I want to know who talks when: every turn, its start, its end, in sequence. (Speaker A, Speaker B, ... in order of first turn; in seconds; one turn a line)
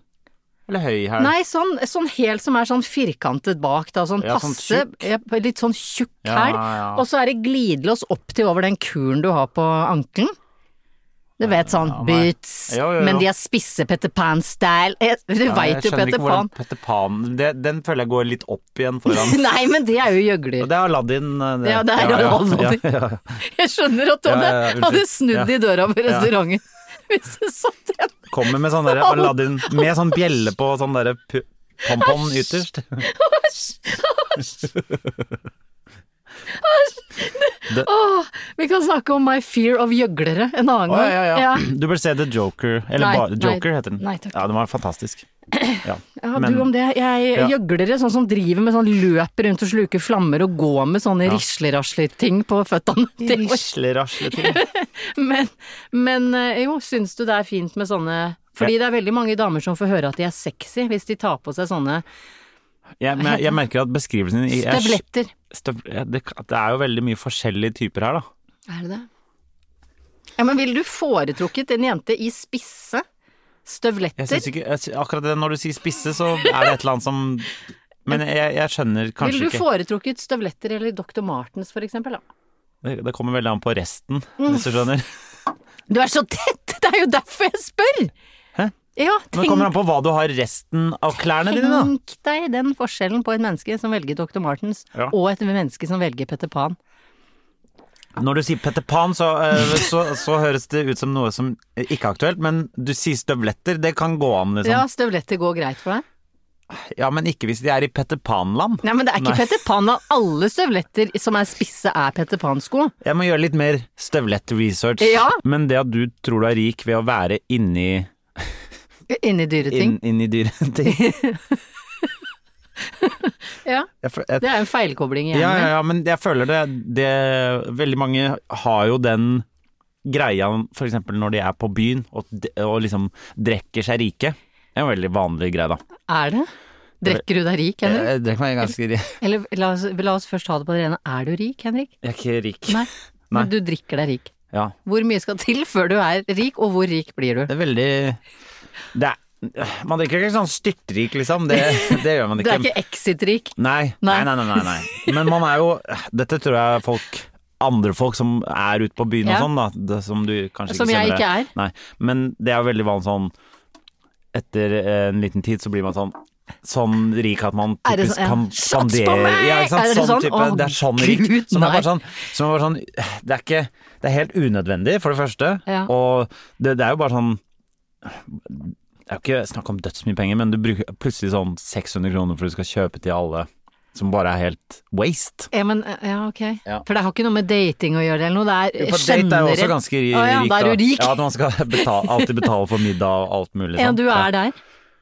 Speaker A: 0.7-1.3
Speaker B: 1.2-10.3
Speaker A: 4.2-5.0
Speaker A: 6.2-7.0
Speaker B: 11.4-16.5
Speaker A: 11.4-13.3
Speaker A: 15.5-19.5
Speaker B: 19.1-20.7
Speaker A: 20.6-23.4
Speaker B: 21.6-22.8
Speaker B: 23.4-29.9
Speaker A: 24.2-26.3
Speaker A: 28.3-33.0
Speaker B: 31.9-32.2
Speaker B: 33.0-34.6
Speaker B: 36.5-41.6
Speaker A: 40.9-45.3
Speaker B: 43.0-44.4
Speaker B: 45.5-53.6
Speaker A: 45.8-46.7
Speaker A: 53.2-54.6
Speaker B: 54.2-62.0
Speaker A: 63.0-68.3
Speaker B: 63.2-63.6
Speaker B: 64.5-65.3
Speaker B: 68.7-69.1
Speaker B: 70.4-73.0
Speaker B: 73.7-74.5
Speaker A: 74.2-77.5
Speaker A: 78.0-79.6
Speaker B: 79.2-82.2
Speaker A: 82.8-85.0
Speaker B: 84.4-84.6
Speaker B: 85.9-88.1
Speaker B: 88.9-89.7
Speaker A: 89.3-91.9
Speaker B: 91.5-96.8
Speaker A: 98.2-104.8
Speaker B: 104.6-106.0
Speaker A: 106.7-109.5
Speaker B: 108.8-112.9
Speaker A: 113.0-118.5
Speaker B: 115.0-115.4
Speaker B: 119.1-120.0
Speaker A: 119.7-121.1
Speaker B: 120.8-121.5
Speaker B: 123.0-123.9
Speaker A: 124.0-124.5
Speaker B: 124.4-125.7
Speaker A: 125.3-129.4
Speaker A: 130.0-135.8
Speaker B: 136.1-136.5
Speaker B: 137.0-138.1
Speaker A: 137.8-139.2
Speaker B: 139.2-141.9
Speaker A: 142.0-143.5
Speaker B: 142.7-144.3
Speaker B: 144.8-147.5
Speaker A: 147.5-148.2
Speaker A: 148.9-152.7
Speaker B: 151.5-155.1
Speaker A: 153.6-163.3
Speaker B: 159.2-159.5
Speaker B: 160.7-161.5
Speaker A: 164.3-177.4
Speaker B: 167.8-171.9
Speaker B: 175.7-175.9
Speaker A: 178.0-185.5
Speaker B: 185.5-192.4
Speaker A: 188.8-194.3
Speaker B: 193.8-194.6